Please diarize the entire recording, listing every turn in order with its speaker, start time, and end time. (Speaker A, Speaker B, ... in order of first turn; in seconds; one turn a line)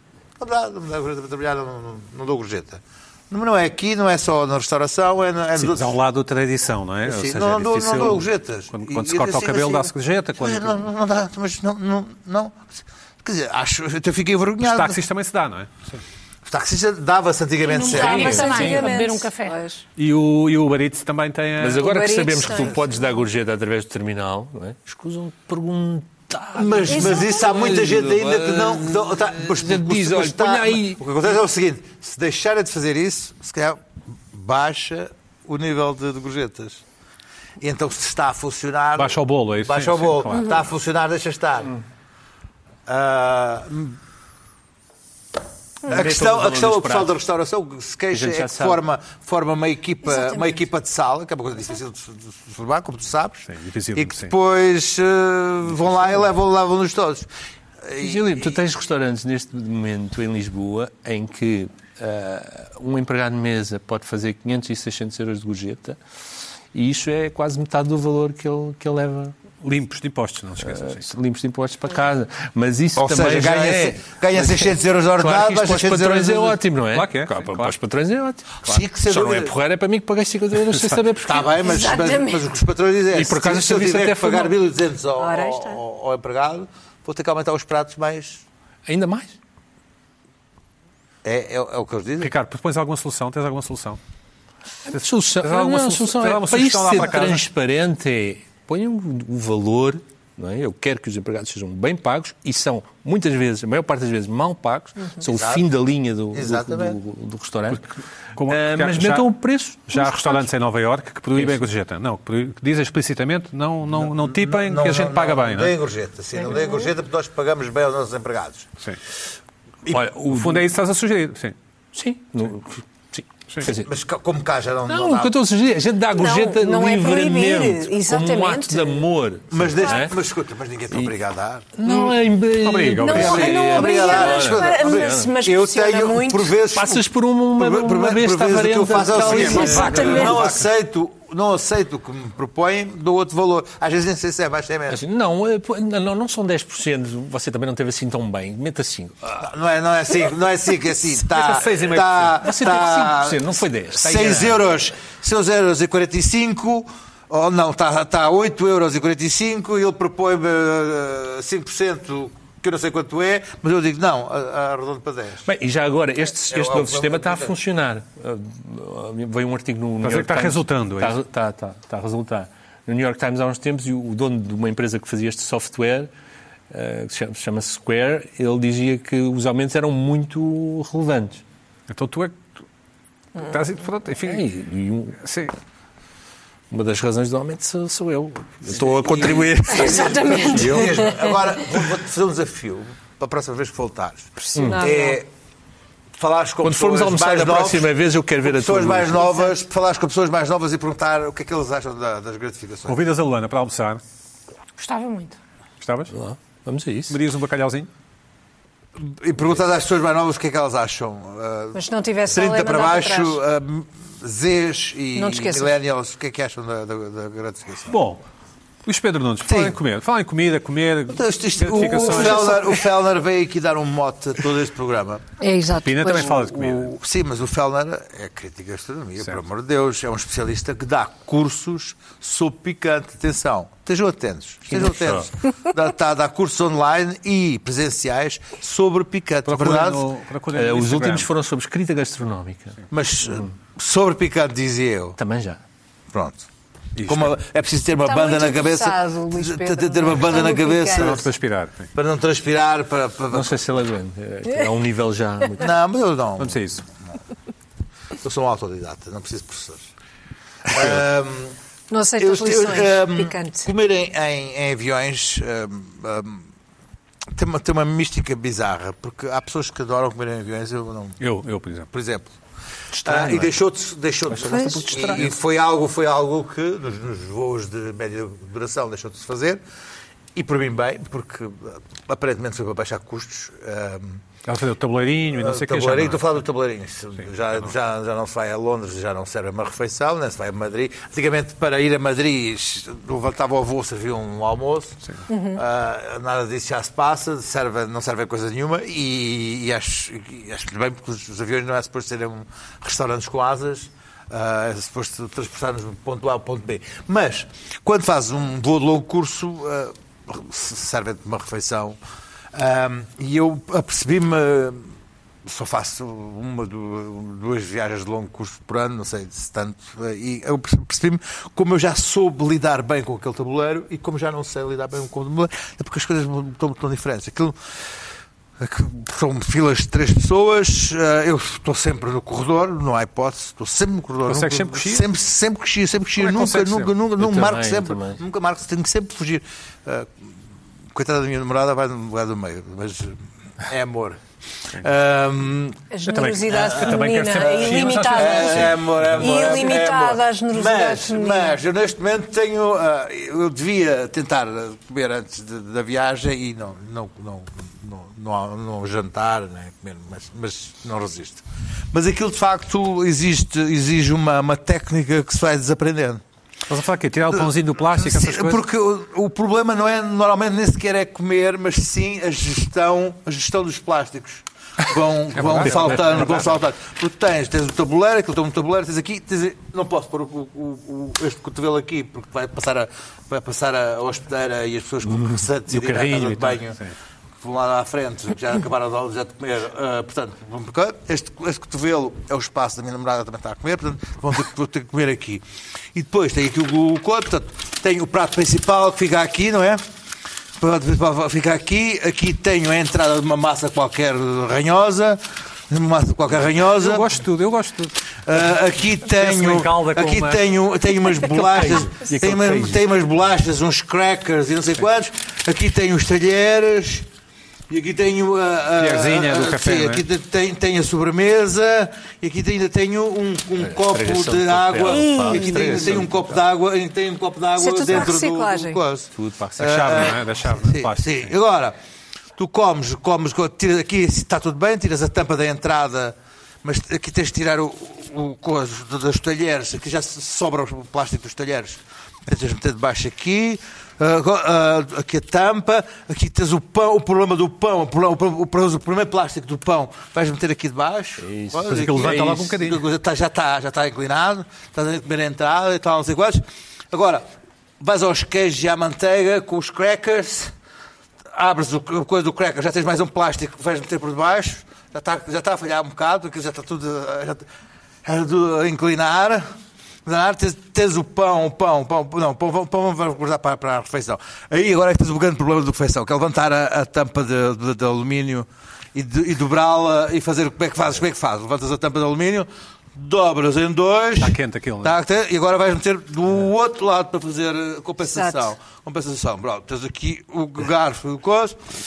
Speaker A: 0.4-6.0
Speaker B: 5.6-10.9
Speaker A: 7.0-15.0
Speaker B: 14.6-16.0
Speaker A: 16.5-18.7
Speaker C: 17.7-19.9
Speaker D: 17.7-19.6
Speaker E: 18.1-18.9
Speaker B: 20.0-21.9
Speaker E: 21.6-31.0
Speaker C: 21.8-22.9
Speaker A: 26.6-36.8
Speaker C: 26.9-27.5
Speaker A: 37.6-41.7
Speaker B: 39.0-40.6
Speaker A: 42.9-44.0
Speaker E: 45.9-47.1
Speaker A: 45.9-57.3
Speaker E: 48.1-48.8
Speaker C: 50.1-50.5
Speaker B: 53.5-54.3
Speaker A: 57.8-58.6
Speaker E: 58.0-66.0
Speaker E: 66.7-69.4
Speaker B: 69.6-71.1
Speaker E: 70.6-81.5
Speaker A: 73.0-76.6
Speaker B: 76.9-77.8
Speaker A: 78.6-79.5
Speaker A: 81.2-88.4
Speaker C: 81.5-82.5
Speaker E: 83.1-84.5
Speaker C: 85.2-85.8
Speaker E: 88.9-89.3
Speaker A: 91.2-92.3
Speaker B: 92.2-94.0
Speaker E: 94.9-107.9
Speaker B: 94.9-97.5
Speaker A: 105.2-105.7
Speaker A: 106.3-107.0
Speaker B: 108.4-109.3
Speaker E: 108.4-110.4
Speaker B: 109.9-115.8
Speaker E: 111.3-111.7
Speaker A: 113.9-118.7
Speaker C: 116.5-116.8
Speaker E: 119.9-120.7
Speaker B: 120.2-121.5
Speaker E: 121.9-123.9
Speaker A: 123.7-125.3
Speaker E: 124.9-130.2
Speaker C: 126.1-129.1
Speaker A: 129.5-131.7
Speaker E: 131.8-135.3
Speaker B: 132.6-133.6
Speaker C: 133.0-136.6
Speaker A: 133.1-137.1
Speaker E: 136.7-140.4
Speaker A: 137.6-145.0
Speaker B: 139.2-140.7
Speaker C: 139.3-140.4
Speaker E: 144.9-149.5
Speaker A: 149.4-165.5
Speaker B: 151.3-152.4
Speaker E: 152.4-154.6
Speaker E: 165.4-176.1
Speaker A: 166.5-167.5
Speaker B: 170.0-171.2
Speaker E: 176.7-181.4
Speaker B: 181.9-182.5
Speaker B: 183.4-184.5
Speaker E: 184.2-185.2
Speaker B: 185.2-185.5
Speaker E: 186.7-191.1
Speaker A: 188.7-195.3
Speaker C: 189.7-191.5
Speaker C: 194.4-195.2
Speaker E: 194.6-194.9
Speaker A: 196.2-197.9
Speaker E: 196.6-199.4
Speaker A: 198.4-203.0
Speaker B: 202.9-204.0
Speaker D: 204.8-205.4
Speaker B: 205.8-206.1
Speaker E: 206.1-207.2
Speaker B: 207.1-207.9
Speaker A: 209.0-218.0
Speaker C: 211.7-213.4
Speaker C: 215.2-215.7
Speaker B: 217.9-218.2
Speaker B: 218.9-222.8
Speaker A: 219.4-219.8
Speaker A: 221.1-225.2
Speaker C: 225.4-226.4
Speaker B: 225.8-226.9
Speaker A: 226.2-240.1
Speaker E: 234.7-235.3
Speaker B: 239.4-241.3
Speaker E: 240.5-243.5
Speaker A: 242.9-245.2
Speaker E: 245.2-245.6
Speaker A: 246.1-246.5
Speaker B: 247.0-247.4
Speaker A: 247.1-251.3
Speaker C: 248.0-251.2
Speaker B: 250.9-251.9
Speaker A: 251.9-253.7
Speaker E: 253.3-255.7
Speaker A: 255.6-256.6
Speaker B: 256.4-256.8
Speaker A: 258.2-259.9
Speaker A: 260.7-261.6
Speaker C: 261.9-263.7
Speaker A: 262.2-266.5
Speaker A: 267.3-271.2
Speaker B: 271.2-271.9
Speaker A: 271.9-272.3
Speaker E: 273.0-273.5
Speaker A: 273.0-279.6
Speaker E: 274.3-275.4
Speaker A: 280.4-284.2
Speaker B: 284.4-286.4
Speaker A: 285.3-312.0
Speaker C: 295.3-295.6
Speaker A: 312.5-314.9
Speaker A: 315.4-327.6
Speaker A: 328.6-340.4
Speaker B: 334.3-335.1
Speaker B: 336.2-336.9
Speaker E: 337.2-338.2
Speaker A: 340.9-344.2
Speaker A: 344.7-345.8
Speaker C: 345.9-351.6
Speaker B: 346.1-349.7
Speaker A: 346.5-366.2
Speaker B: 366.7-368.6
Speaker A: 367.3-386.8
Speaker B: 375.4-376.5
Speaker B: 385.8-386.9
Speaker A: 387.4-399.8
Speaker A: 400.6-407.2
Speaker B: 406.8-407.9
Speaker A: 408.3-417.1
Speaker B: 409.0-410.4
Speaker E: 411.2-412.8
Speaker A: 417.7-431.8
Speaker B: 418.8-420.0
Speaker E: 423.6-426.4
Speaker C: 424.9-426.0
Speaker C: 427.6-428.8
Speaker E: 429.1-430.1
Speaker B: 429.6-431.4
Speaker A: 432.4-457.3
Speaker E: 451.2-452.4
Speaker B: 451.6-452.8
Speaker A: 457.8-460.5
Speaker A: 461.3-467.4
Speaker A: 468.0-469.4
Speaker A: 470.1-491.7
Speaker B: 484.2-485.0
Speaker C: 488.0-488.5